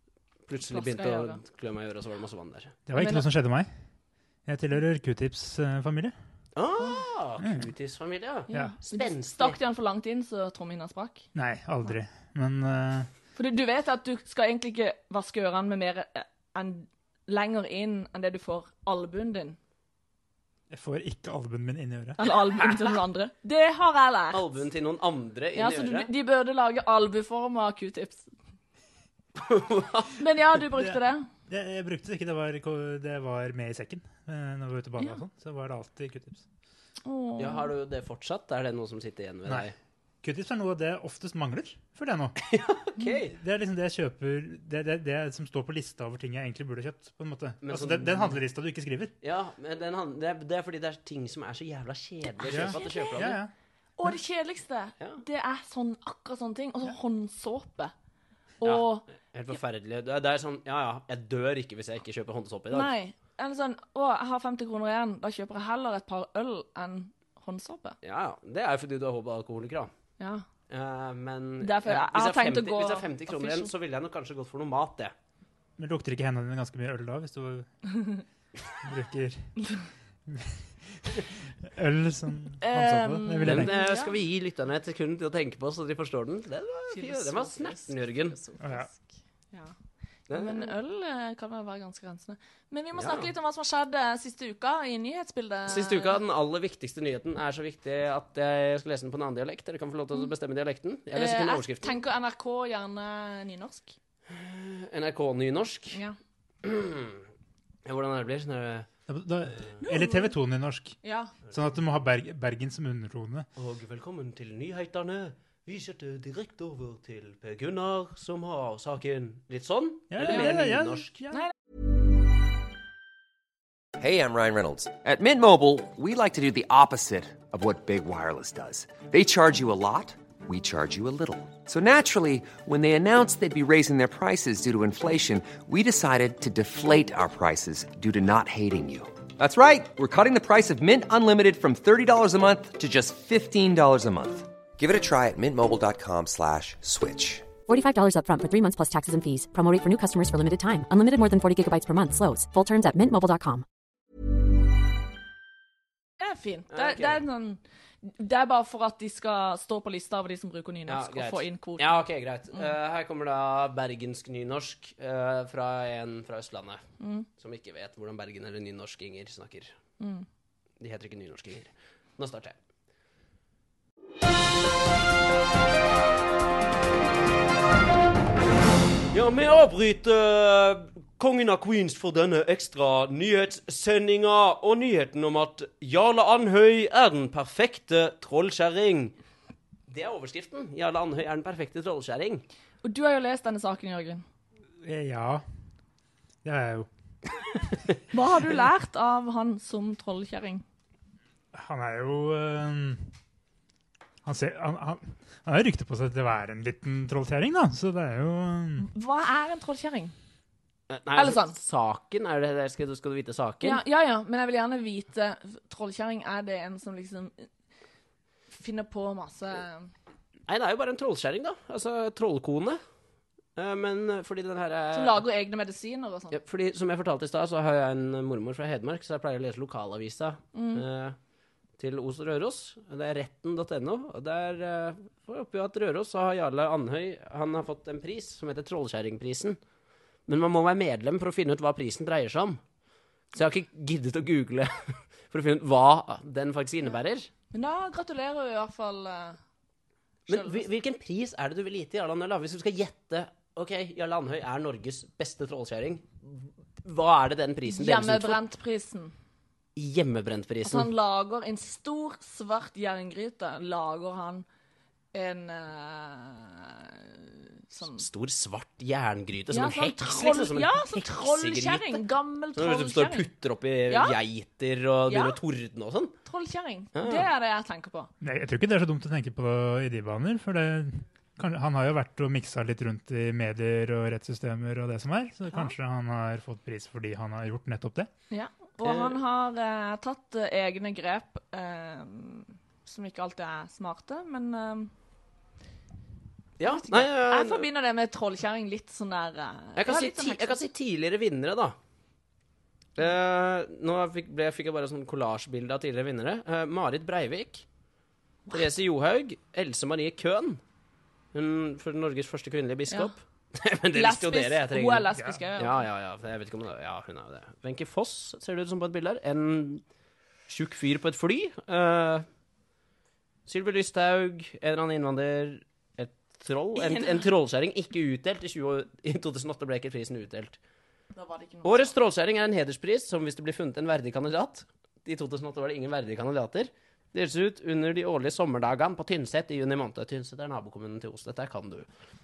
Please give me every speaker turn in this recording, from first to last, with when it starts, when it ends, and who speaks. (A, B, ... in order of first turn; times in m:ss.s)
0:00.5-0:02.8 A
0:00.7-0:01.4 B
0:02.9-0:03.7 C
0:03.0-0:03.3 B
0:04.4-0:06.1 C
0:06.6-0:09.6 A
0:08.5-0:11.2 B
0:11.3-0:13.1 C
0:13.4-0:19.6 B
0:20.7-0:22.2 C
0:22.2-0:24.4 B
0:24.3-0:26.1 A
0:25.5-0:28.3 B
0:29.3-0:30.2 A
0:30.1-0:31.3 B
0:31.5-0:36.4 C
0:37.0-0:37.7 B
0:37.4-0:39.7 A
0:40.2-0:42.4 C
0:42.4-0:43.3 A
0:43.3-0:49.1 C
0:47.6-0:48.4 A
0:49.2-0:53.4 A
0:52.4-0:53.4 B
0:52.5-0:53.5 C
0:54.0-0:57.9 B
0:58.6-0:59.0 B
0:58.6-1:02.9 A
1:02.7-1:08.0 B
1:08.0-1:09.9 A
1:10.2-1:10.4 B
1:10.7-1:15.1 A
1:11.6-1:13.7 B
1:15.8-1:17.7 C
1:18.8-1:19.5 C
1:20.3-1:23.7 C
1:22.6-1:24.1 B
1:23.4-1:28.4 A
1:26.9-1:29.0 B
1:28.6-1:28.9 C
1:30.3-1:30.7 A
1:30.3-1:36.2 B
1:33.0-1:33.3 A
1:35.7-1:42.0 A
1:41.1-1:43.9 B
1:44.3-1:46.0 A
1:46.6-1:47.2 A
1:47.8-1:48.9 A
1:49.1-1:51.0 C
1:49.8-1:50.3 B
1:51.0-1:51.3 B
1:51.5-1:53.5 C
1:53.6-2:01.1 A
2:00.1-2:01.4 C
2:04.0-2:27.5 D
2:27.7-2:33.6 E
2:36.2-2:42.7 B
2:36.7-2:37.2 A
2:40.9-2:46.8 A
2:47.0-2:47.3 B
2:47.4-2:49.7 A
2:50.0-2:50.2 B
2:50.8-2:52.6 A
2:59.1-3:09.2 A
3:09.9-3:12.4 A
3:12.8-3:14.2 B
3:14.8-3:15.4 C
3:16.4-3:16.9 C
3:18.1-3:20.6 B
3:21.5-3:23.1 C
3:24.2-3:28.8 C
3:28.8-3:30.1 B
3:30.9-3:33.8 A
3:31.1-3:31.6 B
3:33.6-3:37.5 B
3:38.5-3:39.9 B
3:40.5-3:42.8 A
3:43.6-3:45.2 A
3:44.9-3:46.4 B
3:46.3-3:51.2 A
3:50.5-3:50.8 B
3:51.8-3:59.6 A
4:00.3-4:02.6 A
4:03.3-4:07.3 A
4:07.5-4:09.4 B
4:10.3-4:10.6 B
4:10.3-4:18.4 A
4:17.6-4:19.1 B
4:19.8-4:20.9 A
4:20.6-4:24.4 B
4:25.1-4:28.0 B
4:28.0-4:32.0 A
4:29.5-4:33.3 B
4:32.5-4:36.1 A
4:33.9-4:34.2 B
4:35.1-4:35.4 B
4:36.2-4:38.1 B
4:36.9-4:37.3 A
4:38.2-4:48.1 C
4:48.3-4:54.9 B
4:48.8-4:49.2 A
4:56.6-4:57.6 A
4:56.7-5:00.6 B
4:59.8-5:01.7 A
5:03.0-5:07.6 A
5:08.5-5:10.6 A
5:11.3-5:19.8 A
5:13.9-5:15.9 B
5:20.5-5:22.2 A
5:23.5-5:30.6 A
5:26.8-5:27.3 B
5:31.1-5:31.9 B
5:31.6-5:41.9 A